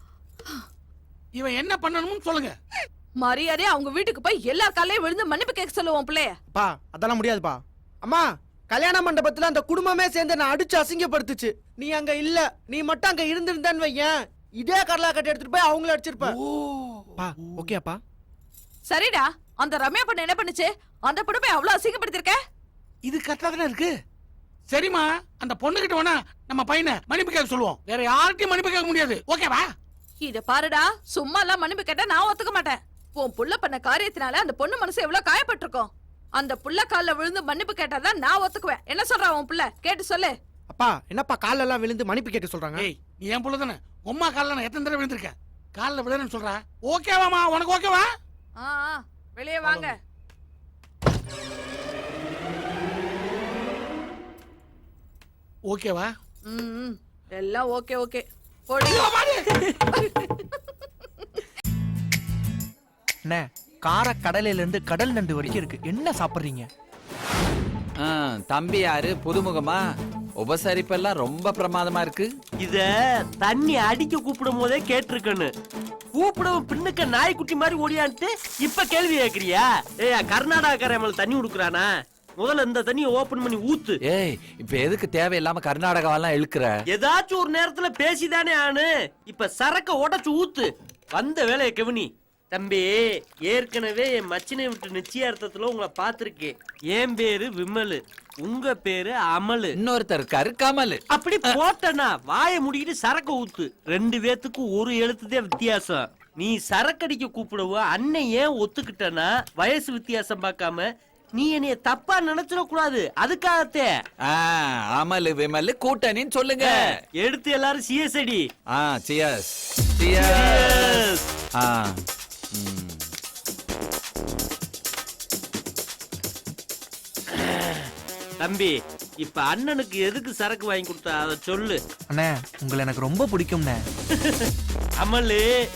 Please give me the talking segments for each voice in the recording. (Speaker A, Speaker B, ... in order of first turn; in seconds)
Speaker A: 1.3-2.5, 16.4-17.6, 23.0-23.9, 24.7-29.7, 42.8-48.1, 49.6-49.9, 55.7-56.1, 58.9-59.4
Speaker B: 3.2-6.3, 18.9-22.4, 30.2-40.3, 48.6-50.0, 56.5-59.1
Speaker C: 6.5-16.4, 17.2-18.0, 40.7-42.9, 63.2-66.7, 132.1-133.8
Speaker D: 68.0-69.8, 70.4-72.3, 84.1-86.7, 99.7-101.6, 114.3-117.0, 118.7-121.0, 121.6-122.0, 122.5-123.1
Speaker E: 72.6-72.9, 73.4-75.5, 76.2-84.0, 86.9-99.7, 101.1-113.9, 116.6-118.5, 120.2-121.0, 127.3-131.8, 135.0-135.5